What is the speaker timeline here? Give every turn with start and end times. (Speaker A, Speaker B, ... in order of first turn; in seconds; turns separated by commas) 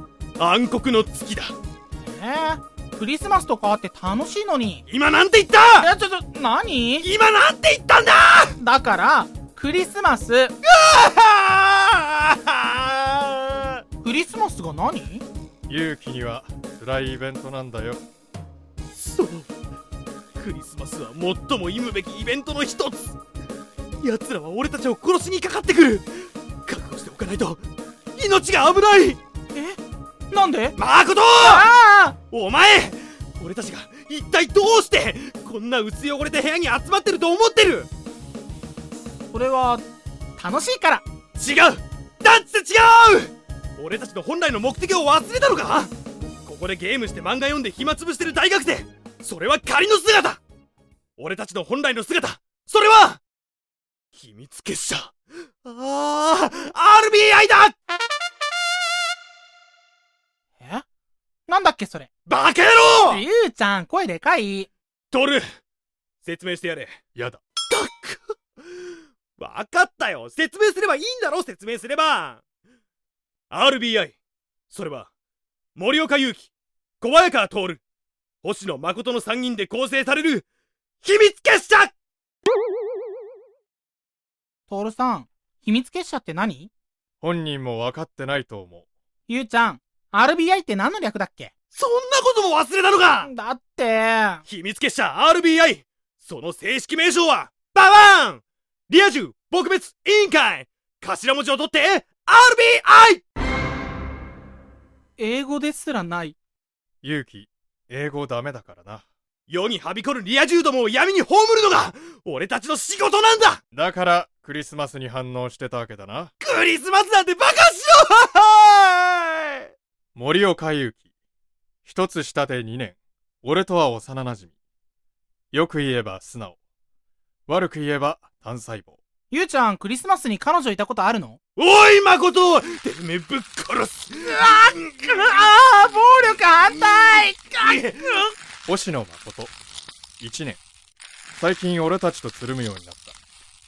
Speaker A: 0.4-1.5, Speaker B: 2.0-4.8, Speaker A: 4.9-5.9, Speaker B: 5.8-7.1, Speaker A: 7.0-8.6, Speaker B: 8.6-10.5, Speaker A: 10.6-13.8, Speaker B: 14.0-15.2, Speaker C: 15.7-18.0, Speaker A: 19.0-19.5, Speaker A: 20.4-23.1, Speaker A: 24.0-26.1, Speaker A: 26.7-27.6, Speaker A: 28.1-29.2, Speaker B: 29.5-29.8, Speaker B: 30.3-30.7, Speaker A: 30.8-31.7, Speaker B: 31.4-32.1, Speaker A: 32.3-37.9, Speaker B: 39.3-39.8, Speaker B: 40.4-41.0, Speaker A: 41.4-45.9, Speaker A: 46.5-50.4, Speaker A: 51.2-53.2, Speaker A: 54.1-55.1, Speaker A: 55.6-57.7, Speaker B: 60.6-60.9, Speaker B: 61.5-62.1, Speaker A: 62.3-63.2, Speaker B: 62.9-64.7, Speaker A: 65.1-65.4, Speaker A: 66.2-67.0, Speaker C: 67.1-67.4, Speaker A: 67.7-68.2, Speaker A: 69.4-72.4, Speaker A: 73.5-74.2, Speaker A: 74.7-75.1, Speaker A: 75.8-77.8, Speaker A: 78.4-80.5, Speaker A: 81.0-81.9, Speaker B: 84.7-86.7, Speaker C: 87.2-88.9, Speaker B: 89.3-91.5, Speaker A: 91.7-93.3, Speaker B: 93.2-94.4, Speaker A: 94.5-103.2, Speaker B: 105.2-106.4, Speaker C: 107.0-109.1, Speaker A: 109.5-113.6, Speaker C: 113.7-116.3, Speaker A: 116.4-119.4, Speaker C: 120.1-121.0, Speaker C: 121.8-124.5, Speaker C: 125.5-126.6, Speaker C: 127.5-129.0, Speaker B: 129.3-131.4, Speaker A: 131.6-135.4, Speaker B: 135.0-137.8, Speaker A: 136.9-138.2, Speaker C: 138.7-139.5, Speaker C: 140.2-140.6, Speaker C: 141.3-143.1